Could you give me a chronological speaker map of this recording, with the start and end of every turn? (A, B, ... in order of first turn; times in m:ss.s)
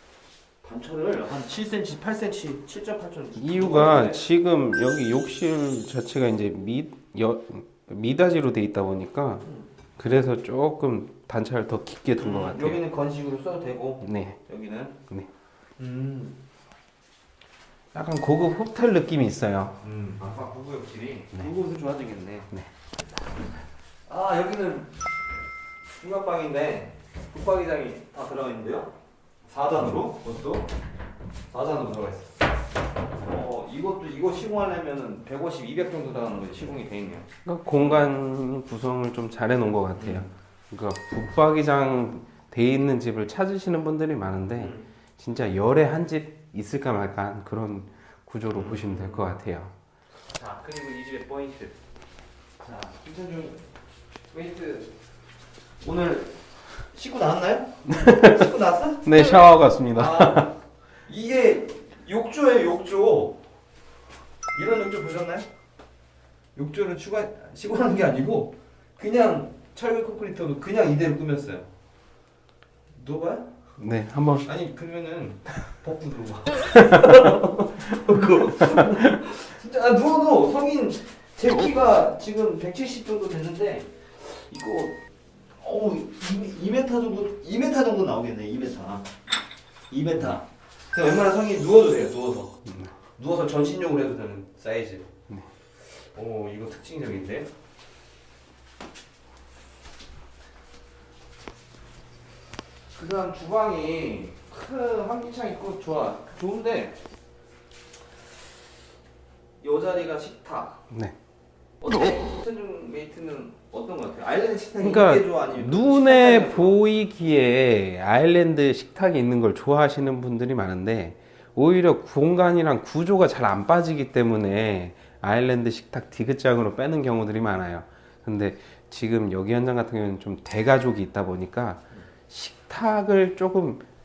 0:00.6-0:04.2 A
0:03.4-0:09.5 B
0:10.0-0:12.8 B
0:12.2-0:15.0 A
0:14.0-0:14.4 B
0:15.8-0:16.4 A
0:17.9-0:19.8 B
0:19.8-0:22.5 A
0:24.1-0:25.0 A
0:26.0-0:28.9 A
0:29.5-0:30.7 A
0:31.5-0:32.4 A
0:33.2-0:38.0 A
0:37.5-0:49.7 B
0:40.0-0:40.3 A
0:44.5-0:44.9 A
0:48.5-0:49.3 A
0:50.3-0:51.8 A
0:52.6-0:53.6 A
0:54.3-0:55.0 A
0:55.8-0:56.4 A
0:56.9-0:59.3 A
0:57.9-0:58.4 B
0:59.0-1:00.5 B
0:59.9-1:00.5 A
1:01.0-1:03.4 A
1:04.5-1:05.5 A
1:06.6-1:11.7 A
1:12.9-1:13.5 A
1:13.8-1:14.5 B
1:14.4-1:29.1 A
1:17.0-1:17.5 B
1:29.9-1:35.1 A
1:35.8-1:37.5 A
1:42.9-1:47.0 A
1:49.6-1:50.8 A
1:51.8-1:56.8 A
1:54.8-2:13.8 B